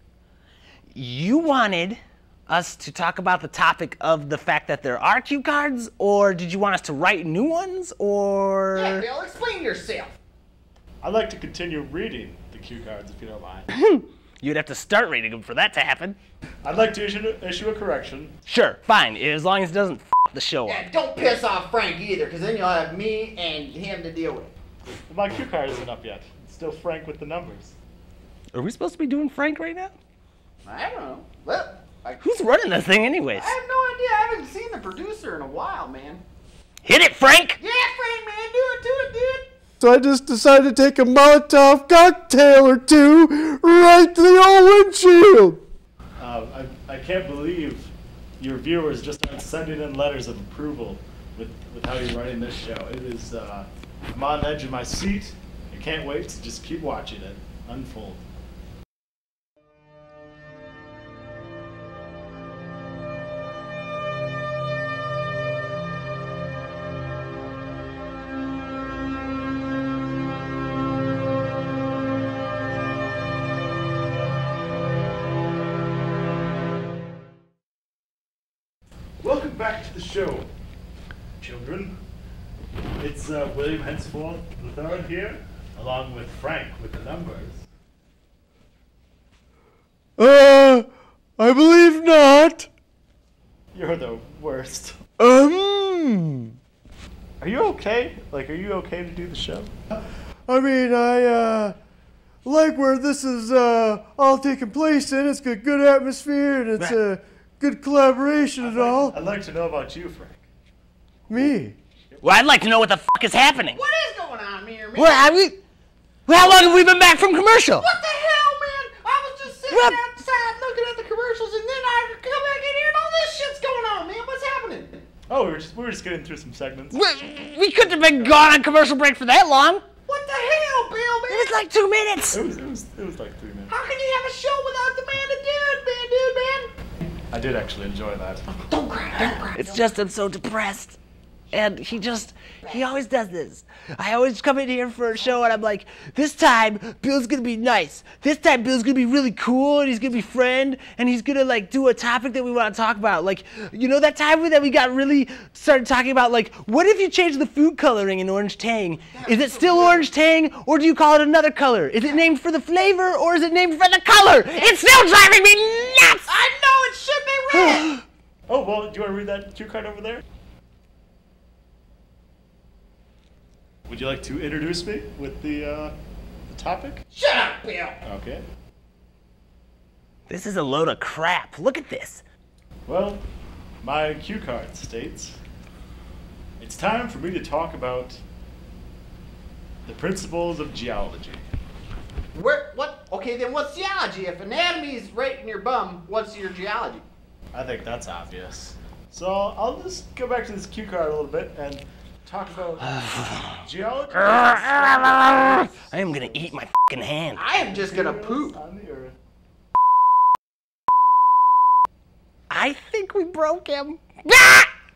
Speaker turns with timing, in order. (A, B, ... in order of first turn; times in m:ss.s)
0:00.9-0:09.1 A
0:08.7-0:10.2 B
0:11.0-0:13.7 C
0:13.7-0:16.2 A
0:16.6-0:18.4 C
0:18.5-0:20.8 A
0:20.7-0:24.5 B
0:25.1-0:27.8 C
0:28.5-0:30.0 A
0:30.6-0:32.3 B
0:32.2-0:33.5 A
0:33.3-0:36.2 B
0:36.8-0:37.6 A
0:37.6-0:39.4 B
0:39.8-0:45.6 D
0:46.2-0:58.2 C
1:19.2-1:20.5 C
1:21.4-1:21.9 C
1:23.0-1:27.6 C
1:30.2-1:32.7 D
1:33.7-1:35.0 C
1:35.2-1:36.6 D
1:37.4-1:39.7 C
1:40.5-1:41.8 D
1:42.4-1:49.2 D
1:48.6-1:50.4 C
1:51.3-1:51.8 D
1:52.1-1:52.4 C
1:52.2-1:53.8 A
1:53.6-1:55.3 B
1:55.0-1:55.6 A
1:56.3-1:57.9 A
1:56.4-1:56.8 B
1:57.8-2:05.0 B
1:59.7-2:00.0 A
2:05.3-2:07.0 C
2:06.9-2:09.8 A
2:07.9-2:08.4 C
2:10.1-2:11.5 B
2:11.3-2:12.4 A
2:12.3-2:13.7 C
2:13.7-2:16.7 B
2:17.3-2:18.5 C
2:18.5-2:19.8 B
2:19.2-2:21.0 A
2:21.5-2:46.3 A
2:39.2-2:40.1 B
2:46.3-2:47.9 B
2:47.5-2:48.0 A
2:48.5-2:50.2 C
2:53.9-2:55.9 C
2:56.5-2:57.0 C
2:57.1-2:58.0 B
2:58.0-2:58.4 C
3:00.3-3:02.2 A
3:02.9-3:03.2 C
3:03.8-3:05.4 C
3:06.6-3:08.2 C
3:09.9-3:11.4 C
3:12.3-3:17.0 B
3:17.5-3:26.6 C
3:22.8-3:23.6 A
3:24.2-3:27.4 A
3:27.4-3:28.6 B
3:27.6-3:29.2 C
3:32.5-3:34.7 A